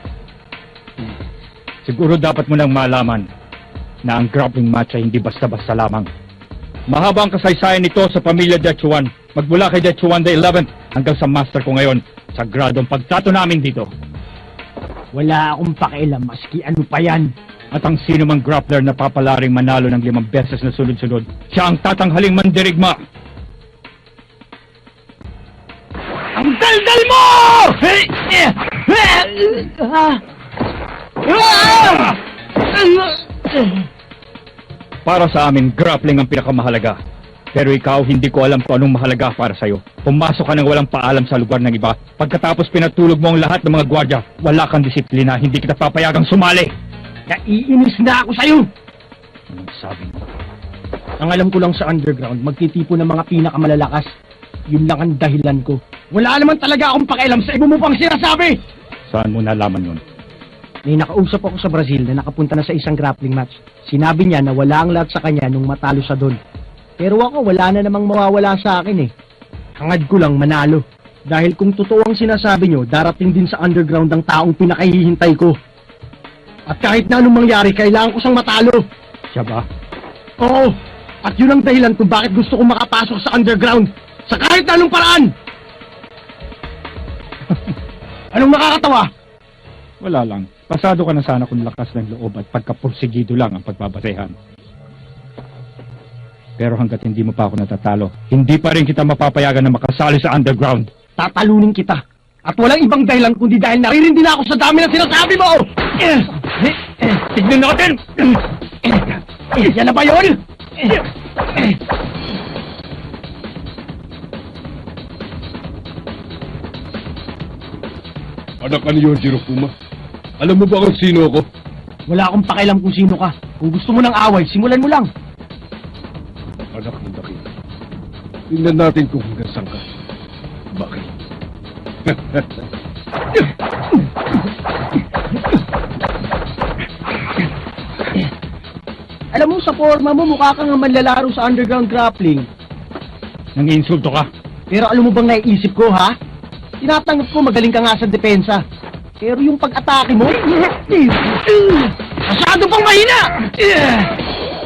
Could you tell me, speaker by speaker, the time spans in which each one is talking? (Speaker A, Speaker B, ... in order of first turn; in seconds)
Speaker A: 1.9-3.2, 4.0-6.1, 6.9-13.9, 17.7-22.9, 35.0-37.0, 37.5-46.7, 49.5-50.2, 59.1-60.0, 79.3-79.7, 90.0-94.3, 96.6-100.9, 107.1-108.4, 143.6-144.3
Speaker B: 15.1-17.3, 26.4-30.2, 31.2-32.2, 32.7-33.9, 47.3-48.7, 51.2-54.1, 54.7-58.6, 60.9-66.4, 67.0-69.1, 69.8-75.5, 76.7-78.8, 80.4-85.3, 88.3-89.1, 101.2-107.1, 108.8-111.8, 122.1-125.1, 139.3-142.5, 144.7-146.1, 146.8-148.6, 149.2-154.1
Speaker C: 118.6-119.7, 120.4-121.5, 126.7-127.5, 128.5-129.8, 130.7-131.1, 132.1-132.5